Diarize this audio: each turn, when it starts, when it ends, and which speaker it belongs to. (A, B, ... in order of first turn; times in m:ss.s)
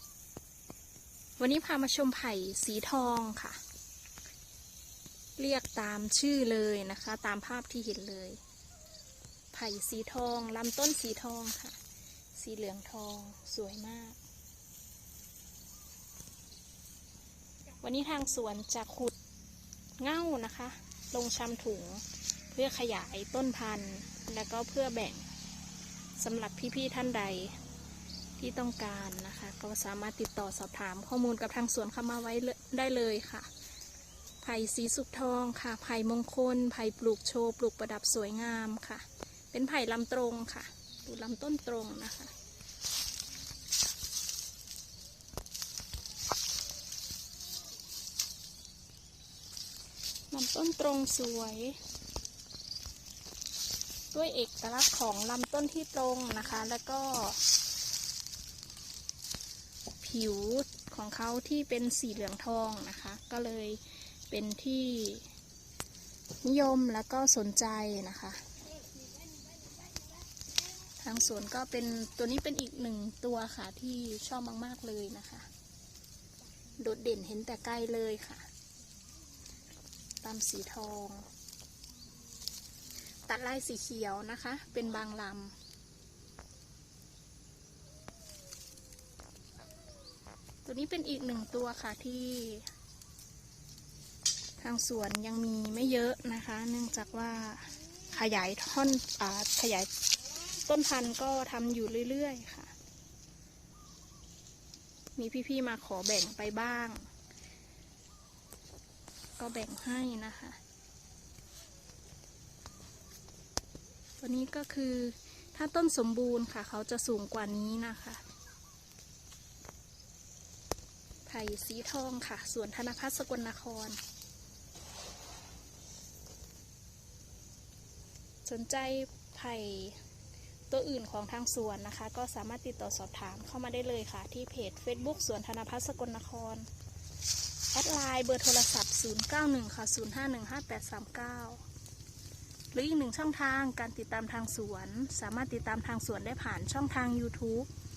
0:01.4-0:03.6 A
0:05.4-0:08.4 A
0:09.5-0:11.8 A
0:12.3-0:14.2 A
0:17.8-0:19.2 A
0:20.0-0:25.3 A
0:26.2-0:27.6 A
0:28.4-0:33.5 A
0:34.4-0:42.3 A
0:50.3-0:51.8 A
0:54.1-0:57.4 A
1:00.0-1:05.3 A
1:06.4-1:08.4 A
1:11.0-1:15.5 A
1:16.8-1:18.5 A
1:20.2-1:21.3 A
1:23.3-1:25.6 A
1:30.6-1:32.7 A
1:34.6-1:39.9 A
1:40.6-1:42.7 A
1:45.2-1:47.0 A
1:49.4-1:50.6 A
1:54.2-1:58.2 A
2:01.3-2:04.0 A
2:08.4-2:10.0 A
2:10.7-2:16.7 A
2:17.7-2:21.6 A
2:22.7-2:27.7 A